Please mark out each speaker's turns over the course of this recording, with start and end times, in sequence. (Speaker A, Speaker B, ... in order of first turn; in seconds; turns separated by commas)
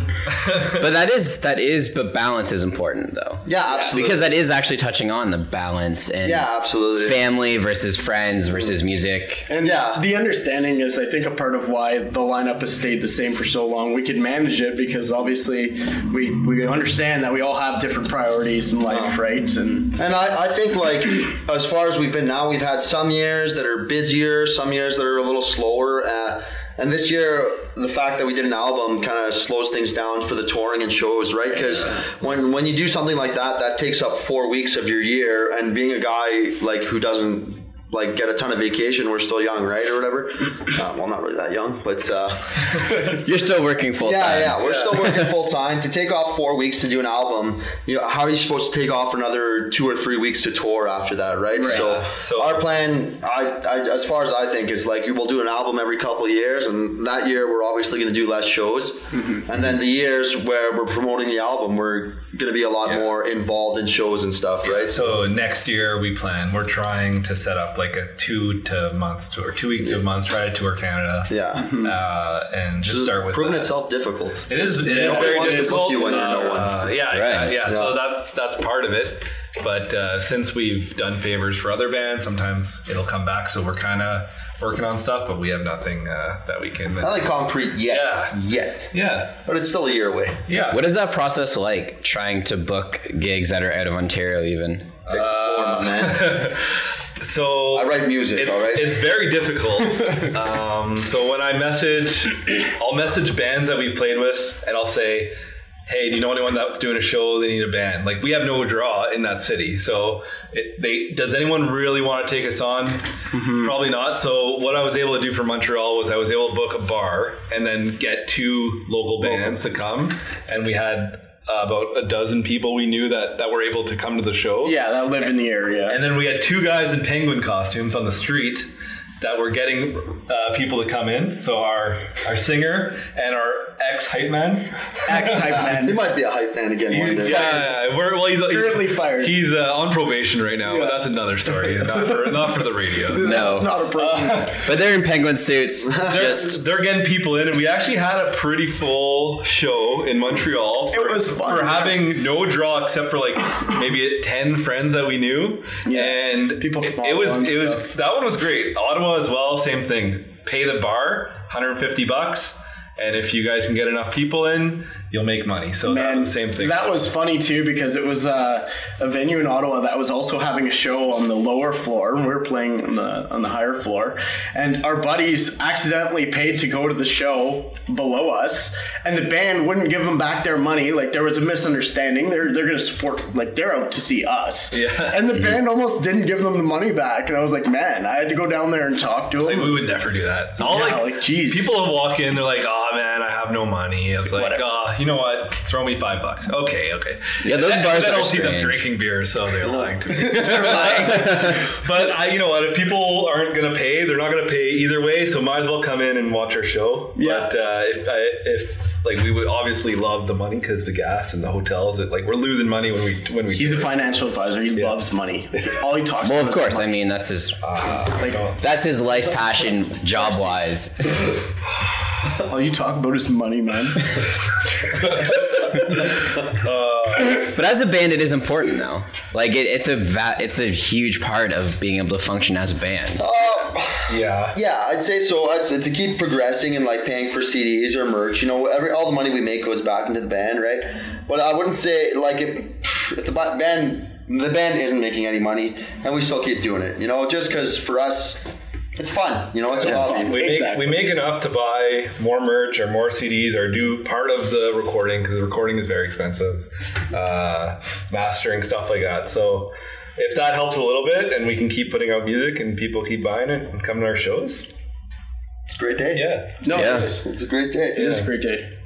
Speaker A: 0.5-0.8, Speaker B: 0.8-9.5, Speaker C: 3.5-4.3, Speaker D: 3.7-4.0, Speaker C: 6.2-7.2, Speaker D: 9.5-20.0, Speaker C: 9.6-10.0, Speaker C: 18.9-19.2, Speaker C: 20.0-43.2, Speaker D: 31.5-32.5, Speaker B: 43.2-45.3, Speaker C: 44.0-65.2, Speaker A: 44.6-45.0, Speaker D: 51.5-51.9, Speaker A: 51.7-52.7, Speaker D: 59.1-59.5, Speaker A: 64.6-73.7, Speaker C: 71.3-71.8, Speaker D: 71.6-71.9, Speaker C: 72.8-76.9, Speaker A: 74.5-88.4, Speaker D: 74.8-76.5, Speaker B: 77.1-77.6, Speaker C: 77.7-78.0, Speaker C: 87.0-90.4, Speaker A: 88.9-89.4, Speaker A: 90.5-90.8, Speaker B: 90.7-94.9, Speaker A: 95.1-105.3, Speaker C: 95.1-96.4, Speaker C: 97.7-99.0, Speaker A: 105.9-125.3, Speaker D: 113.3-113.7, Speaker D: 124.6-126.0, Speaker A: 125.9-128.7, Speaker A: 129.2-135.4, Speaker D: 135.1-136.0, Speaker C: 135.6-137.6, Speaker A: 136.9-143.3, Speaker D: 137.1-137.8, Speaker D: 138.4-139.4, Speaker D: 140.7-142.4, Speaker D: 142.9-144.6, Speaker B: 143.2-143.7, Speaker A: 143.9-144.8, Speaker B: 144.6-146.6, Speaker C: 145.9-146.4, Speaker A: 146.1-166.8, Speaker D: 150.9-152.0, Speaker D: 155.8-157.9, Speaker D: 165.9-189.9, Speaker A: 184.7-185.3, Speaker A: 189.4-213.9, Speaker D: 190.6-191.8, Speaker D: 194.2-194.7, Speaker B: 197.4-198.9, Speaker D: 199.7-201.4, Speaker B: 200.7-201.6, Speaker D: 207.2-207.5, Speaker D: 213.5-217.0, Speaker A: 214.7-215.0, Speaker B: 216.2-217.6, Speaker A: 217.6-218.6, Speaker D: 218.2-218.5, Speaker B: 218.6-221.2, Speaker D: 220.2-220.6, Speaker D: 222.4-224.2, Speaker A: 224.9-227.5, Speaker D: 225.3-225.9, Speaker B: 227.4-233.3, Speaker C: 233.2-250.4, Speaker A: 234.1-234.6, Speaker D: 249.8-251.0, Speaker A: 249.8-264.7, Speaker C: 265.7-268.1, Speaker A: 266.1-266.7, Speaker D: 266.6-267.3, Speaker B: 266.7-267.1, Speaker D: 267.9-268.7, Speaker A: 268.0-268.3